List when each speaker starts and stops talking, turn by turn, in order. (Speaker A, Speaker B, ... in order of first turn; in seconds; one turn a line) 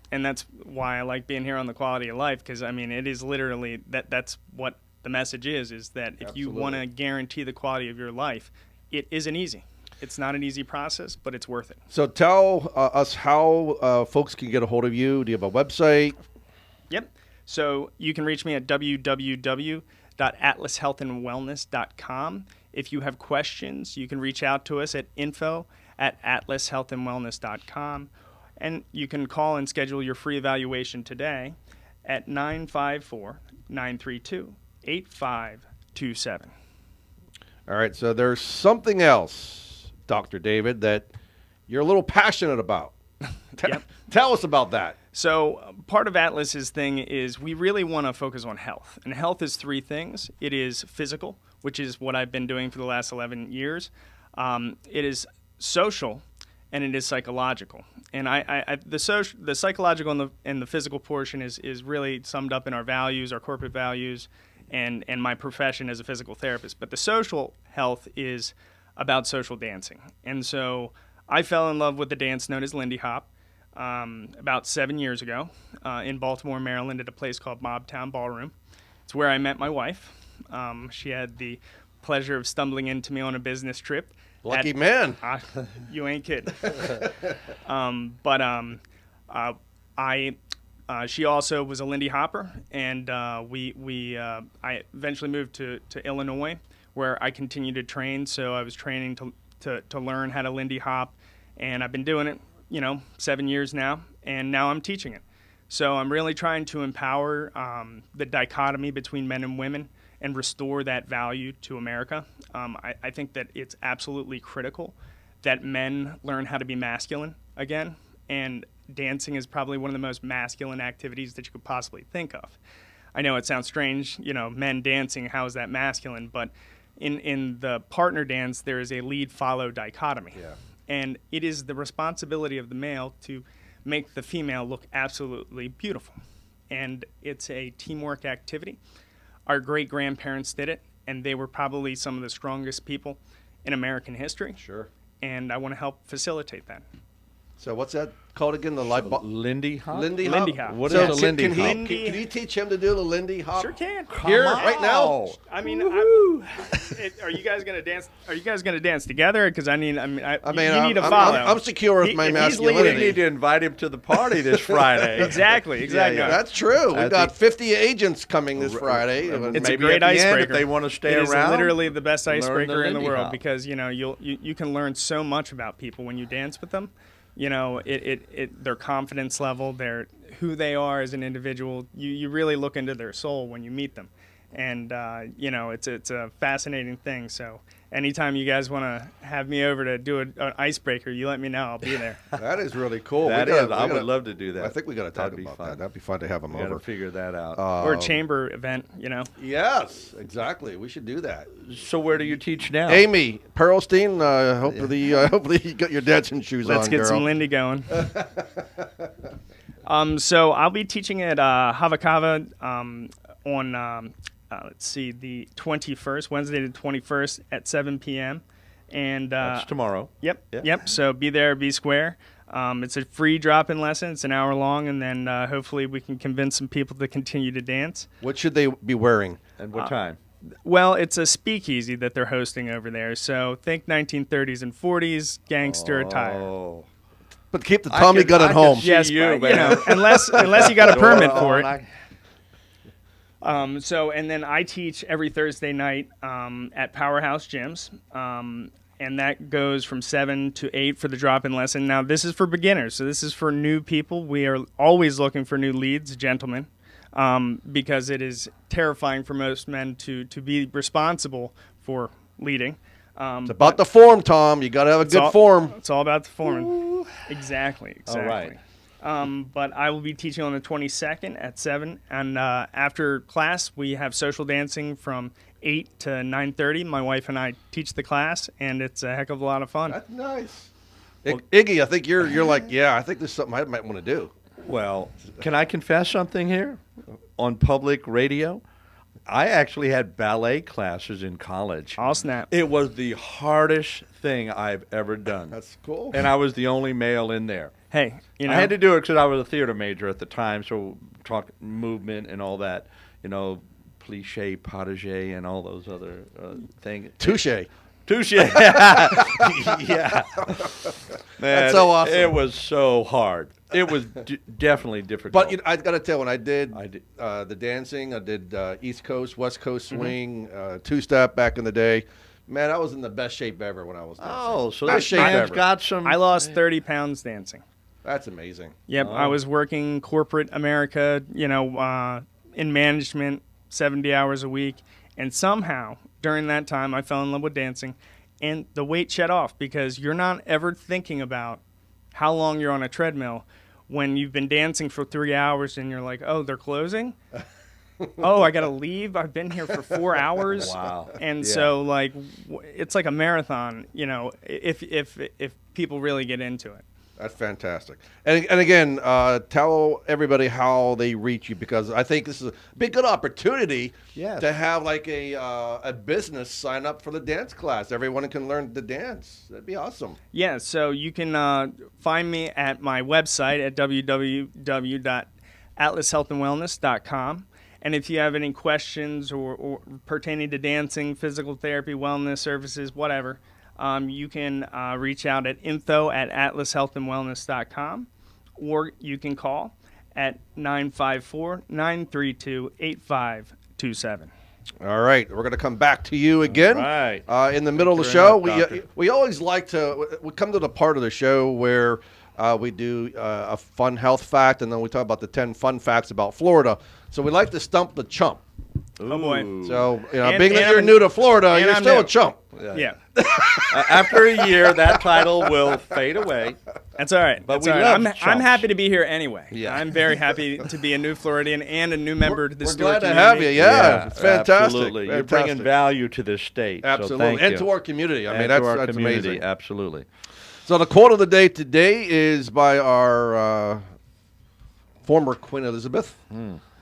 Speaker A: 0.1-11.8
Speaker B: 6.2-6.8
Speaker B: 11.9-16.1
Speaker A: 16.9-36.5
Speaker B: 37.7-41.1
Speaker B: 41.7-42.9
Speaker B: 43.5-45.0
Speaker A: 45.1-78.5
Speaker A: 79.0-87.0
Speaker B: 84.4-85.2
Speaker B: 86.7-87.1
Speaker A: 87.7-90.4
Speaker A: 90.9-122.6
Speaker A: 123.1-136.2
Speaker A: 136.7-138.8
Speaker A: 139.5-144.6
Speaker B: 144.6-144.9
Speaker A: 145.2-146.8
Speaker B: 147.6-149.2
Speaker C: 149.0-151.8
Speaker B: 149.9-155.2
Speaker A: 150.2-152.2
Speaker A: 153.6-154.1
Speaker C: 154.1-156.9
Speaker A: 155.5-163.1
Speaker B: 160.4-163.2
Speaker C: 161.0-161.5
Speaker C: 162.3-167.3
Speaker B: 164.4-165.3
Speaker A: 165.2-166.4
Speaker B: 166.2-169.7
Speaker C: 168.6-173.4
Speaker A: 169.5-192.2
Speaker B: 192.3-196.8
Speaker C: 193.2-195.8
Speaker C: 196.5-197.6
Speaker B: 197.5-198.2
Speaker A: 197.8-199.3
Speaker B: 199.4-201.5
Speaker C: 201.6-203.1
Speaker B: 202.9-207.2
Speaker A: 206.6-208.0
Speaker B: 207.9-209.1
Speaker A: 209.8-228.1
Speaker C: 219.4-220.9
Speaker B: 228.2-229.4
Speaker C: 229.6-230.2
Speaker A: 230.6-236.5
Speaker C: 235.6-236.9
Speaker B: 237.5-238.9
Speaker C: 237.9-241.9
Speaker A: 238.8-241.7
Speaker B: 239.5-241.4
Speaker A: 243.4-263.8
Speaker B: 263.4-265.8
Speaker A: 265.1-280.0
Speaker C: 266.5-267.2
Speaker C: 268.1-268.6
Speaker B: 279.9-280.7
Speaker B: 281.2-284.3
Speaker C: 284.6-286.8
Speaker C: 287.4-288.6
Speaker C: 289.2-295.6
Speaker A: 292.0-292.5
Speaker B: 295.5-296.2
Speaker C: 296.1-297.7
Speaker A: 297.9-298.7
Speaker C: 298.5-307.4
Speaker B: 307.2-307.7
Speaker C: 308.1-315.6
Speaker B: 308.4-310.9
Speaker B: 311.4-312.4
Speaker B: 315.3-325.6
Speaker C: 316.7-317.0
Speaker C: 324.2-326.5
Speaker A: 324.9-325.5
Speaker A: 326.0-327.6
Speaker B: 328.0-328.8
Speaker A: 328.9-341.6
Speaker C: 329.0-329.4
Speaker A: 342.1-347.2
Speaker A: 348.2-356.8
Speaker C: 350.5-351.7
Speaker B: 357.2-370.2
Speaker C: 364.1-364.5
Speaker A: 370.3-394.3
Speaker B: 394.8-408.4
Speaker C: 396.4-397.2
Speaker C: 397.8-398.8
Speaker C: 409.0-409.9
Speaker A: 409.1-409.5
Speaker B: 409.6-412.4
Speaker A: 410.2-412.1
Speaker C: 412.5-412.9
Speaker A: 412.7-413.0
Speaker B: 413.1-415.8
Speaker C: 413.5-416.6
Speaker A: 417.0-423.6
Speaker C: 417.4-418.7
Speaker C: 419.5-420.0
Speaker B: 422.2-425.7
Speaker C: 423.6-427.7
Speaker B: 426.8-429.4
Speaker C: 428.3-430.1
Speaker B: 430.6-433.8
Speaker B: 435.0-436.2
Speaker C: 436.3-436.6